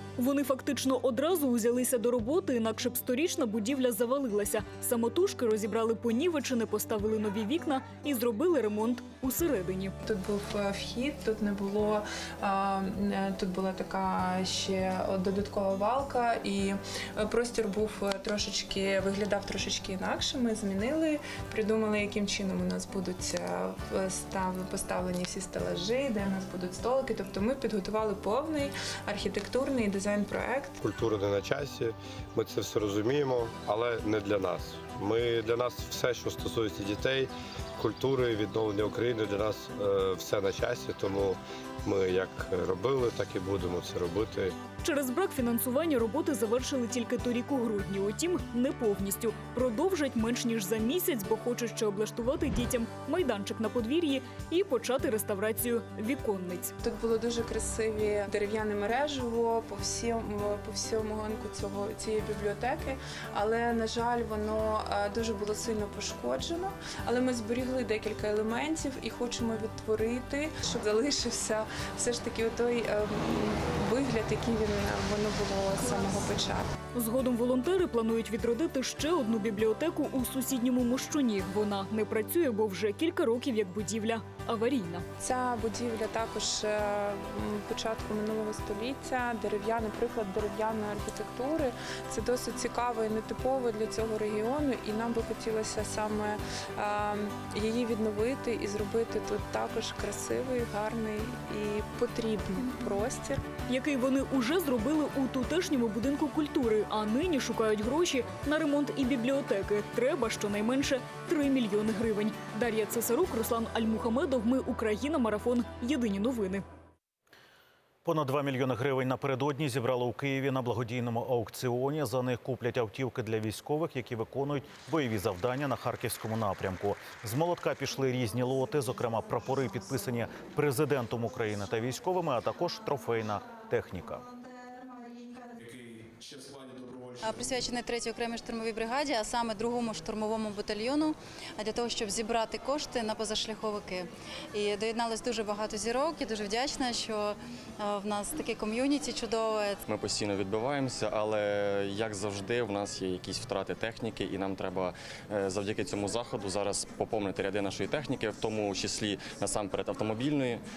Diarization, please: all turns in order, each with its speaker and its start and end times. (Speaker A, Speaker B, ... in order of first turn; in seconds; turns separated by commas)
Speaker A: 0.2-9.9, Speaker B: 10.1-30.8, Speaker C: 30.9-44.5, Speaker A: 44.8-56.7, Speaker B: 56.8-76.7, Speaker A: 76.9-85.0, Speaker B: 85.2-103.4, Speaker A: 103.7-116.6, Speaker D: 118.0-134.2, Speaker E: 137.2-149.8, Speaker F: 149.9-160.6